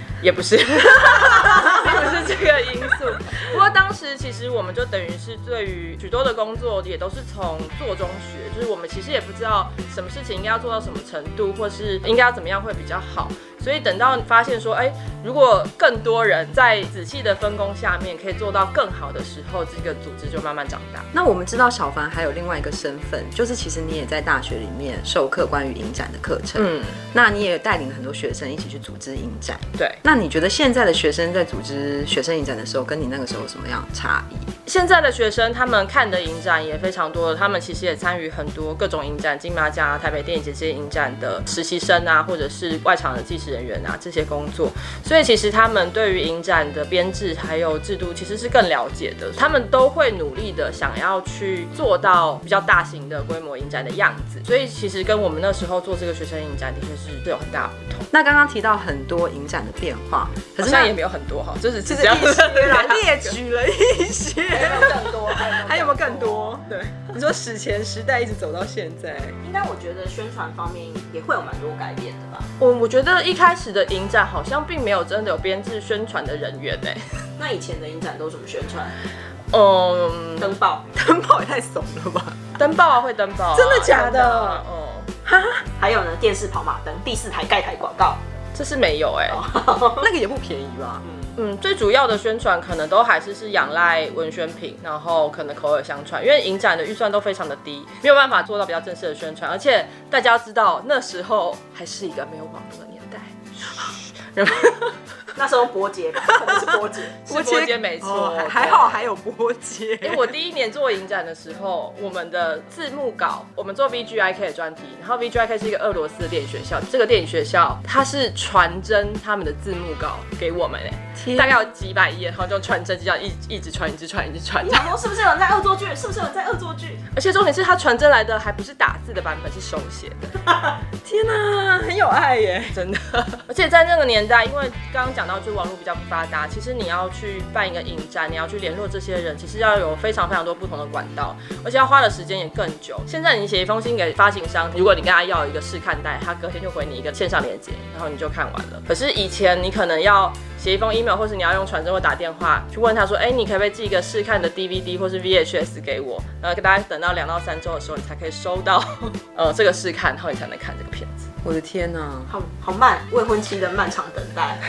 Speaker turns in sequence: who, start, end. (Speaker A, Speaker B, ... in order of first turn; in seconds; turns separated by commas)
Speaker A: 0.2-21.1, Speaker B: 1.7-2.1, Speaker C: 21.1-34.5, Speaker A: 26.5-27.0, Speaker A: 34.6-58.1, Speaker C: 58.1-61.0, Speaker A: 60.6-63.3, Speaker C: 61.8-69.4, Speaker B: 64.5-66.7, Speaker B: 69.4-72.5, Speaker A: 72.6-77.2, Speaker B: 77.4-78.9, Speaker A: 79.5-80.5, Speaker B: 80.4-80.9, Speaker C: 80.9-82.5, Speaker A: 82.6-85.1, Speaker C: 83.5-84.6, Speaker C: 85.2-85.7, Speaker B: 85.8-88.2, Speaker A: 88.5-89.4, Speaker B: 89.3-90.1, Speaker C: 90.0-91.0, Speaker A: 91.4-105.0, Speaker B: 105.3-107.2, Speaker C: 106.3-106.7, Speaker A: 107.2-109.1, Speaker C: 107.3-110.3, Speaker A: 110.0-124.9, Speaker C: 121.2-121.6, Speaker B: 124.6-127.0, Speaker A: 127.1-130.4, Speaker C: 131.0-132.8, Speaker A: 132.7-161.3, Speaker C: 161.4-162.3, Speaker B: 162.3-164.6